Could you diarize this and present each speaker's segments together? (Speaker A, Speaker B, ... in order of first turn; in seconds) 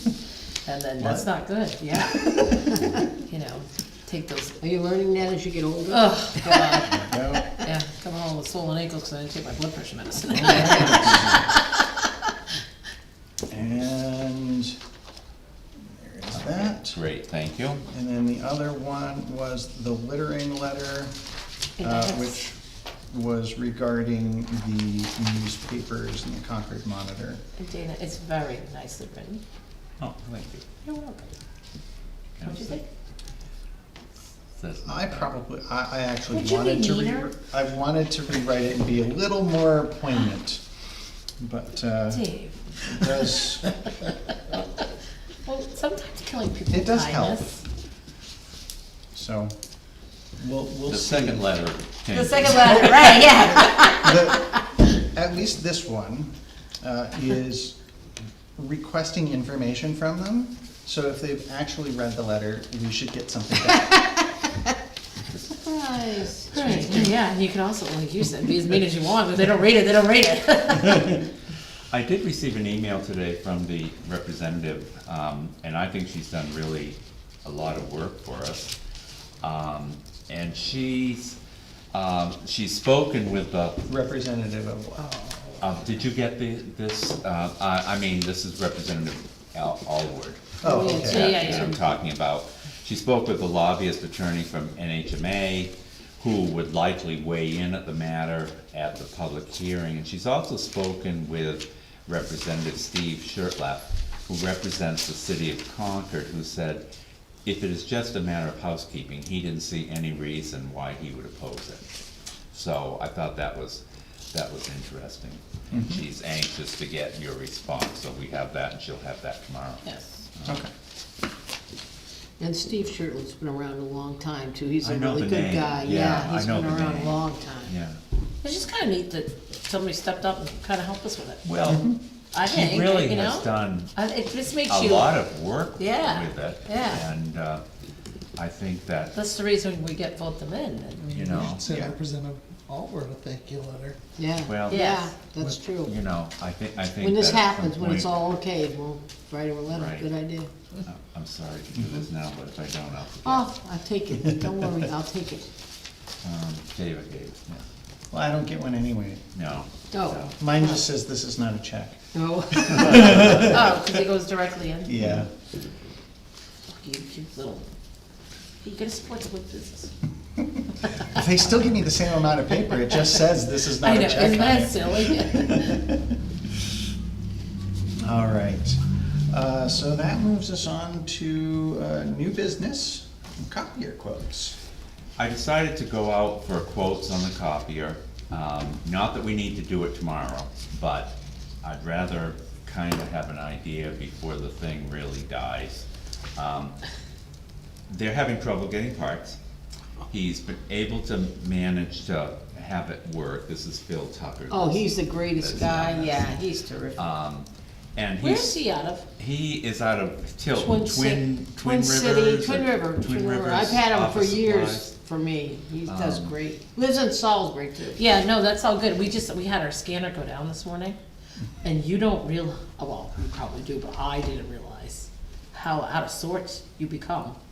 Speaker A: 0.7-2.4, 3.2-4.6, 5.9-7.0, 7.6-11.8, 21.8-22.4, 27.6-29.4, 30.9-31.3, 32.4-32.9, 36.3-37.3, 42.1-44.6, 45.4-47.6, 52.1-54.1, 66.5-71.2, 90.6-91.9, 119.8-120.1, 128.4-131.4, 132.3-135.2, 135.8-137.0, 139.1-141.3, 144.7-145.1, 163.2-165.0, 166.7-167.7, 168.6-169.9, 173.8-175.8, 208.2-209.1, 210.5-211.3, 217.9-221.0, 221.6-227.4
Speaker B: 1.0-1.3, 2.1-2.5, 6.9-7.5, 10.3-11.6, 13.5-14.8, 15.8-17.0, 17.9-21.1, 21.8-22.6, 23.1-27.4, 34.9-40.6, 41.4-42.3, 42.8-43.7, 46.7-47.5, 49.1-49.5, 50.4-51.5, 52.9-57.8, 58.6-64.0, 83.9-85.1, 90.6-91.6, 115.7-116.0, 131.7-132.0, 141.7-142.0, 154.3-154.8, 158.1-159.2, 160.4-163.8, 164.9-165.3, 171.1-176.2, 178.0-178.8, 179.3-184.6
Speaker C: 2.4-3.0, 4.6-7.6, 10.7-11.1, 65.5-67.1, 122.4-127.7, 144.2-145.9, 147.0-150.5, 153.2-155.5, 159.9-160.3, 162.2-163.4, 204.5-207.1, 211.6-218.0
Speaker D: 16.3-17.8, 30.0-30.8, 32.4-32.8, 34.6-35.3, 50.9-53.2, 71.9-78.7, 79.4-81.4, 81.9-83.8, 85.6-106.8, 107.5-111.9, 112.5-120.6, 124.8-128.0, 131.4-133.9, 134.7-137.6, 138.4-139.2, 141.1-141.7, 144.5-145.0, 145.7-148.2, 149.7-150.1, 150.8-153.5, 156.2-157.6, 159.3-160.4, 162.8-163.6, 185.2-196.8, 197.9-199.4, 200.1-206.4, 206.9-208.6, 209.2-214.9, 215.8-216.4
Speaker E: 141.0-144.0